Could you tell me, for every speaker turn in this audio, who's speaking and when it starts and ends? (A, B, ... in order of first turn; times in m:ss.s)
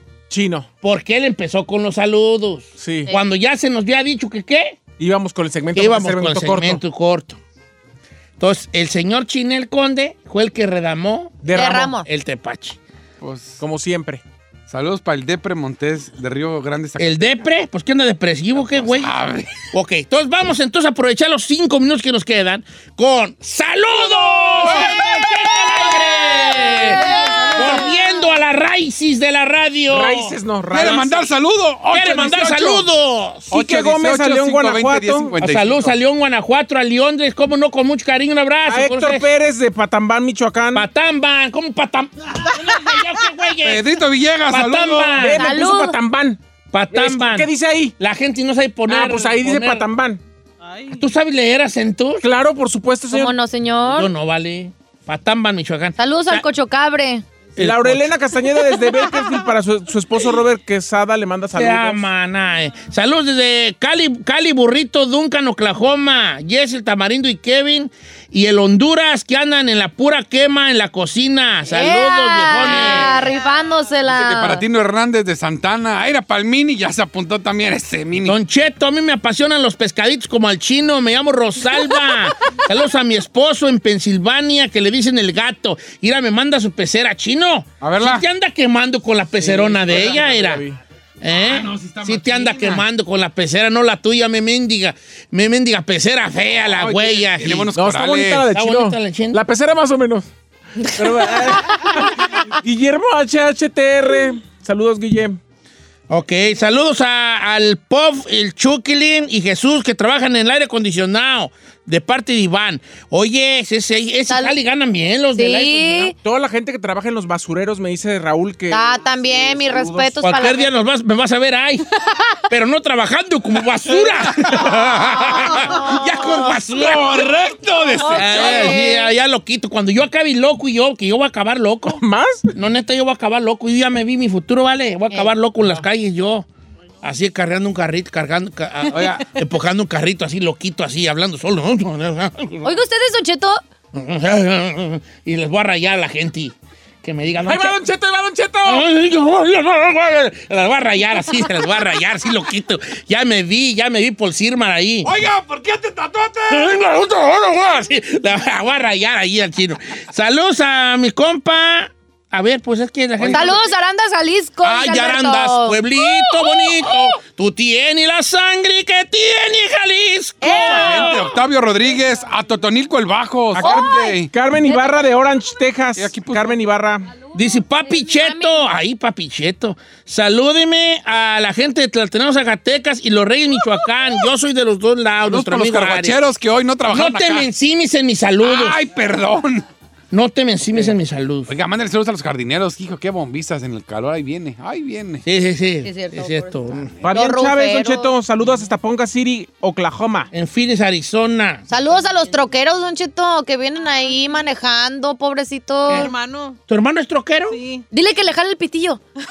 0:00.3-0:00.7 A
0:00.8-0:04.8 B
0:02.8-0:03.1 A
0:05.0-0:06.8 A
0:05.8-0:07.4 B
0:08.4-0:12.8 B
0:11.4-0:11.9 A
0:11.5-0:12.1 C
0:13.2-0:13.6 D
0:13.6-0:14.2 A
0:14.7-0:17.4 D
0:17.0-0:19.1 B
0:18.6-0:19.7 D
0:19.7-0:31.0 B
0:24.6-0:24.9 D
0:26.4-0:28.0 C
0:29.9-0:31.2 A
0:30.7-0:32.9 D
0:31.9-0:33.6 B
0:33.5-0:35.4 A
0:33.5-0:35.9 D
0:35.4-0:39.3 B
0:38.7-0:40.9 A
0:40.7-0:43.9 B
0:43.6-0:45.2 D
0:44.4-0:45.4 B
0:45.2-0:46.4 A
0:45.3-0:46.0 C
0:46.7-0:49.8 B
0:46.9-0:47.9 A
0:48.9-0:50.2 A
0:50.6-0:51.0 E
0:50.9-0:52.2 B
0:52.2-0:53.3 A
0:53.1-0:54.1 C
0:53.8-0:56.4 B
0:56.0-0:57.2 C
0:57.6-0:58.1 B
0:57.6-1:02.0 A
1:01.5-1:13.3 B
1:11.7-1:14.6 C
1:12.9-1:13.9 E
1:14.1-1:18.4 D
1:18.2-1:30.6 B
1:27.8-1:28.2 D
1:29.4-1:30.8 A
1:31.2-1:37.7 B
1:31.3-1:32.8 D
1:36.7-1:38.4 D
1:37.7-1:40.3 A
1:38.5-1:39.4 B
1:40.8-1:45.4 A
1:46.1-1:56.1 B
1:54.3-1:54.6 C
1:55.4-1:56.1 C
1:56.2-1:58.9 A
1:58.7-2:00.7 C
2:00.2-2:01.9 B
2:02.5-2:07.3 B
2:04.2-2:08.8 D
2:05.7-2:06.0 C
2:08.0-2:09.1 C
2:08.1-2:12.0 B
2:11.9-2:12.5 A
2:12.5-2:16.5 B
2:17.0-2:22.8 B
2:18.9-2:19.2 D
2:22.6-2:23.6 C
2:23.9-2:27.8 B
2:27.5-2:28.9 A
2:28.6-2:35.1 B
2:35.0-2:36.7 D
2:36.5-2:43.6 B
2:43.3-2:45.8 C
2:44.6-2:51.4 B
2:50.4-2:51.1 C
2:50.5-2:54.3 D
2:53.5-2:57.1 A
2:53.6-2:54.1 C
2:54.7-2:55.1 C
2:56.0-2:56.6 D
2:57.3-3:06.2 B
2:57.9-2:58.7 C
3:05.2-3:07.5 D
3:06.9-3:08.8 B
3:08.4-3:09.7 D
3:10.1-3:11.5 B
3:11.5-3:15.2 D
3:15.2-3:16.9 B
3:15.8-3:18.1 C
3:16.9-3:17.2 D
3:17.0-3:20.3 A
3:20.3-3:21.6 B
3:21.7-3:26.1 C
3:25.9-3:26.6 E
3:26.7-3:27.6 B
3:27.5-3:27.8 E
3:27.9-3:29.0 C